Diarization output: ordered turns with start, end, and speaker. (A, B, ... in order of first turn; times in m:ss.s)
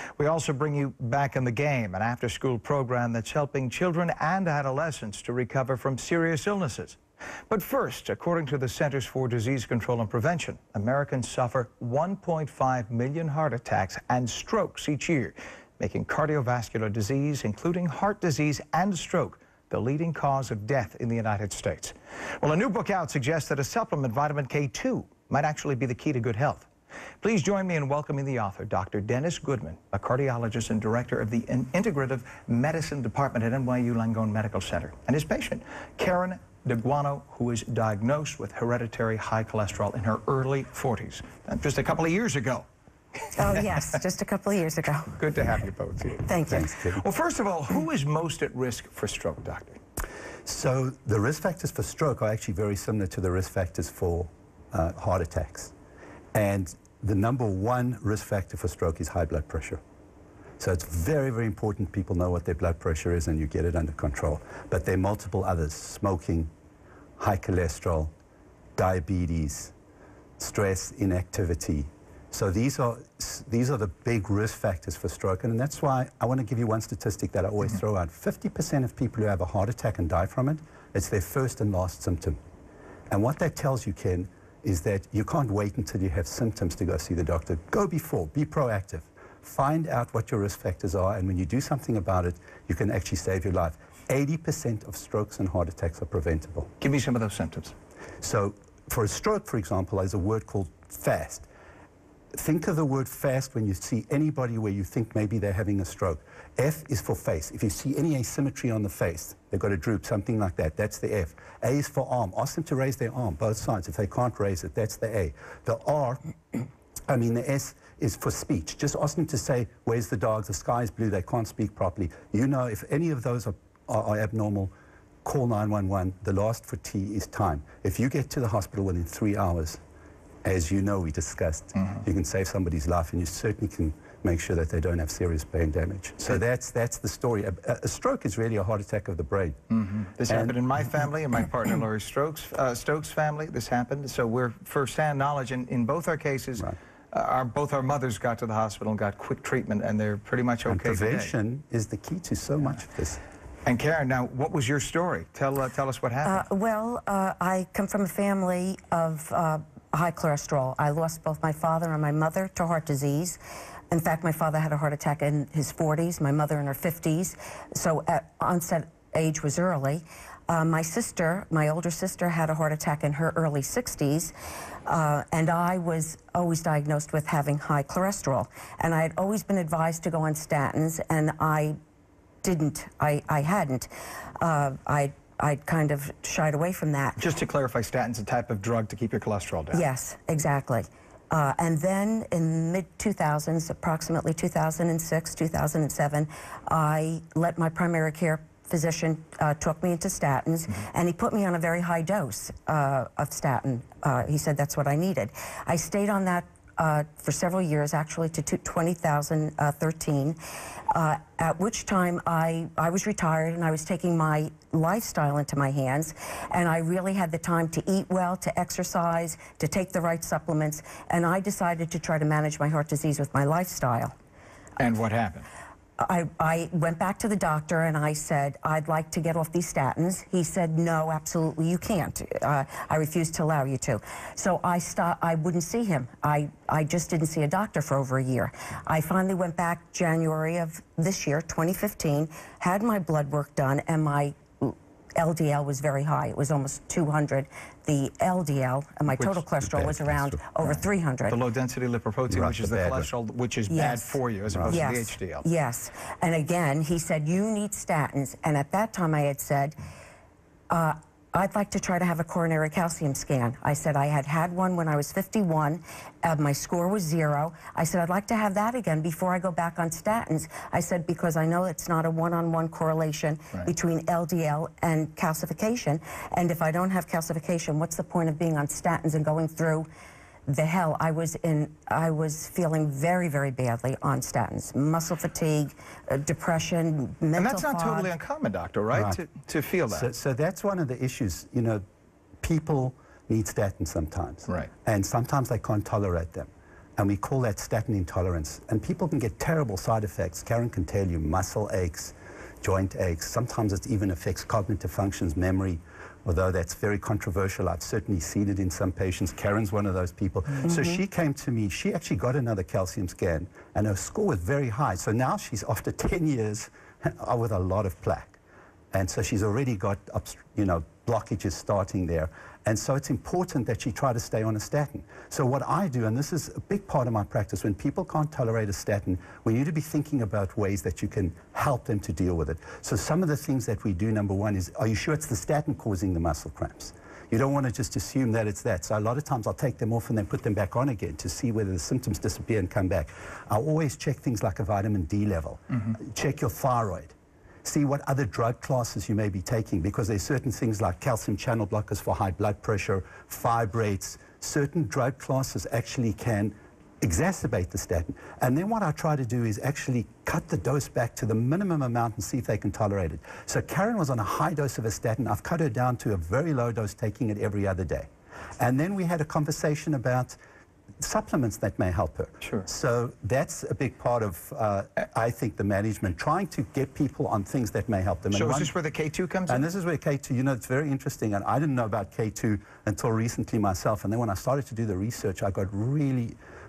0:00.2-0:26.7 A
0:27.2-0:42.6 A
0:43.2-0:43.6 A
0:43.4-0:45.2 B
0:45.2-0:46.4 A
0:46.2-0:46.7 B
0:46.5-0:47.0 C
0:46.9-0:49.8 A
0:50.4-0:55.7 C
0:56.3-0:59.8 C
1:00.6-1:06.5 C
1:07.2-1:08.1 C
1:08.8-1:09.7 C
1:10.4-1:22.4 C
1:23.1-1:36.7 C
1:36.8-1:37.7 A
1:38.2-1:41.5 C
1:42.3-1:56.2 C
1:57.1-2:04.7 C
2:05.2-2:09.8 C
2:10.4-2:19.6 C
2:19.7-2:31.3 A
2:20.3-2:20.6 C
2:30.6-2:33.2 C
2:33.6-2:36.4 A
2:36.2-2:43.4 B
2:43.9-2:54.3 B
2:54.8-3:01.8 B
3:02.4-3:03.9 B
3:04.4-3:07.2 B
3:07.2-3:09.8 A
3:09.7-3:30.4 B
3:30.9-3:44.1 B
3:44.8-3:45.5 A
3:46.0-4:11.4 B
4:09.6-4:10.5 C
4:11.3-4:15.4 A
4:12.3-4:13.1 C
4:13.7-4:19.8 B
4:14.5-4:14.8 C
4:20.7-4:39.9 B
4:40.5-4:48.1 B
4:47.3-4:50.1 A
4:48.9-4:49.2 C
4:49.9-4:51.8 C
4:52.4-5:18.4 C
5:10.7-5:10.9 B
5:18.9-6:08.1 C
6:08.6-6:10.4 C
6:11.0-6:18.7 C
6:18.3-6:19.7 A
6:19.5-6:26.3 C